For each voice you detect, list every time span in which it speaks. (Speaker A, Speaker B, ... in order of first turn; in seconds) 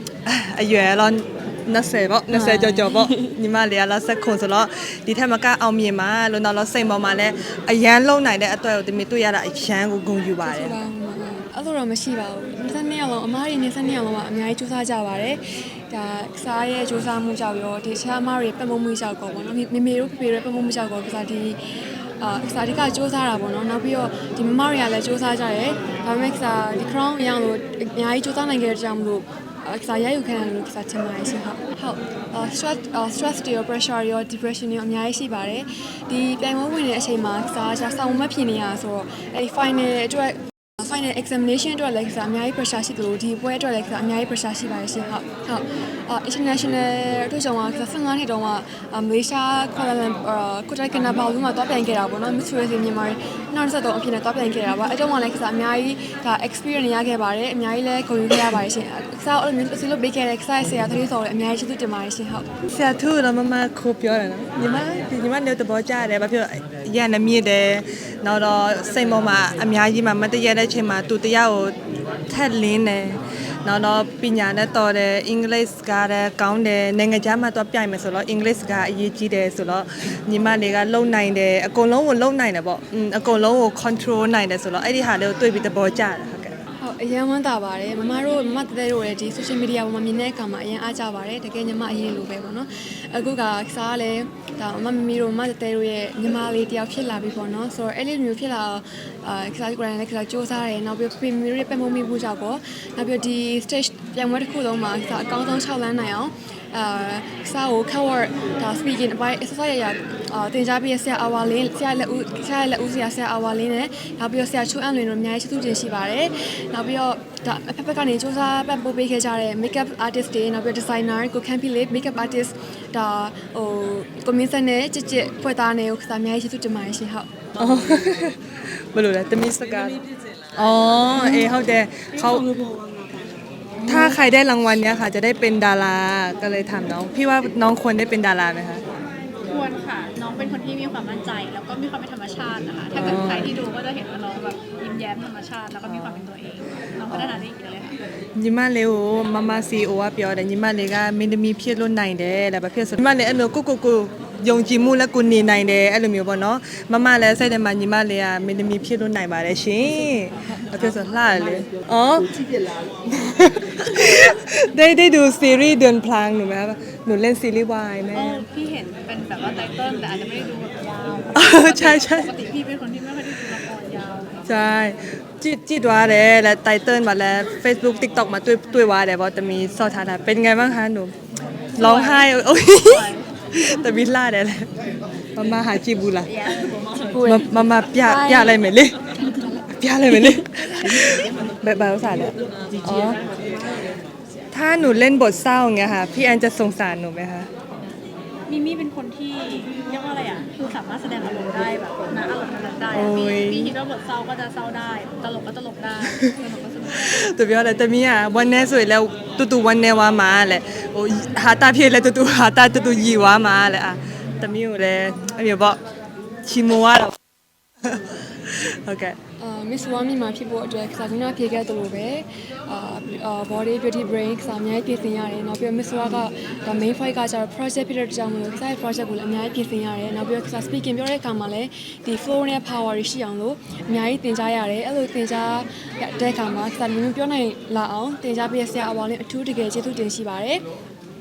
Speaker A: 0.2-10.8, 62.6-71.8, 72.3-86.5, 127.5-130.0, 130.5-132.6, 133.8-138.8, 142.9-143.6, 145.9-146.3, 147.1-147.4, 148.3-162.4, 163.0-168.4, 171.3-172.3, 174.4-181.1, 181.8-184.7, 185.3-186.5, 187.2-189.0, 189.7-193.2, 194.5-197.5, 202.9-203.7, 206.0-206.4, 206.9-215.8, 216.4-217.2, 217.8-219.2
Speaker B: 2.3-3.3, 10.4-21.6, 22.2-62.5, 86.8-127.3, 131.2-131.5, 133.8-134.2, 187.1-189.7, 219.4-240.6
Speaker C: 139.5-148.0, 168.1-174.4, 181.7-183.7, 186.3-187.2, 198.4-207.3